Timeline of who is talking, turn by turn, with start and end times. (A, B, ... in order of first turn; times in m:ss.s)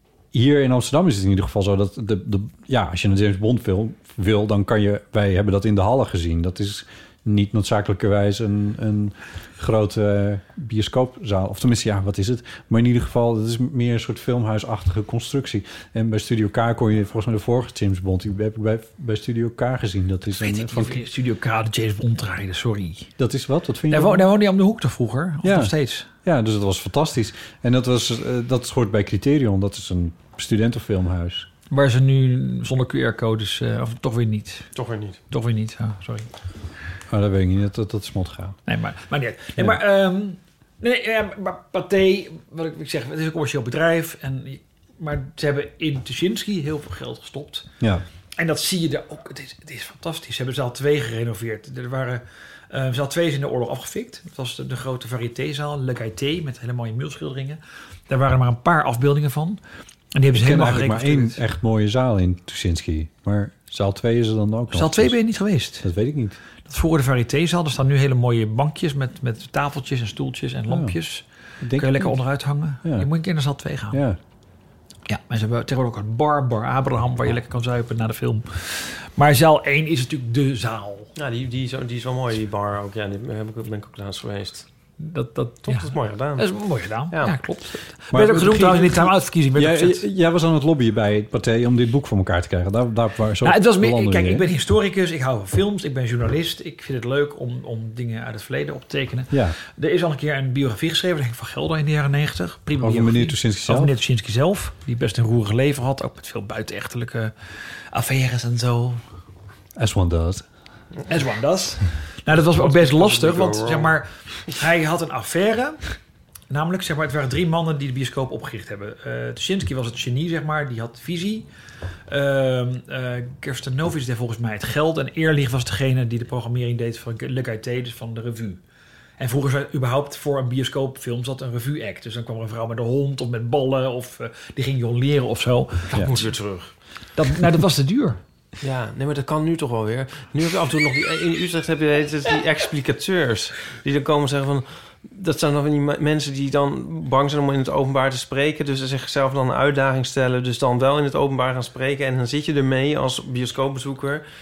0:00.3-0:21.1 A
0:20.4-0:23.1 B
0:23.2-0:24.3 A
0:23.9-0:26.1 B
0:25.4-0:25.7 A
0:26.2-0:31.5 A
0:31.7-0:34.7 B
0:34.7-0:35.2 C
0:35.3-0:36.3 B
0:37.1-0:38.6 A
0:38.7-0:47.7 B
0:48.4-0:59.6 B
1:00.1-1:01.4 B
1:00.3-1:05.2 A
1:04.7-1:05.9 B
1:05.8-1:06.4 A
1:06.6-1:11.2 B
1:10.7-1:10.9 A
1:11.6-1:12.2 A
1:11.8-1:14.0 B
1:13.9-1:14.2 A
1:15.1-1:21.1 B
1:21.2-1:24.6 C
1:25.0-1:30.0 B
1:25.6-1:26.4 C
1:28.1-1:34.4 A
1:33.4-1:47.3 B
1:39.3-1:39.6 A
1:42.8-1:43.9 A
1:47.9-1:49.0 B
1:49.8-1:50.4 A
1:51.1-1:55.8 B
1:52.5-1:53.9 C
1:56.5-2:01.5 B
2:02.1-2:08.6 B
2:09.2-2:16.2 B
2:15.9-2:16.7 C
2:17.2-2:18.2 B
2:18.6-2:34.2 C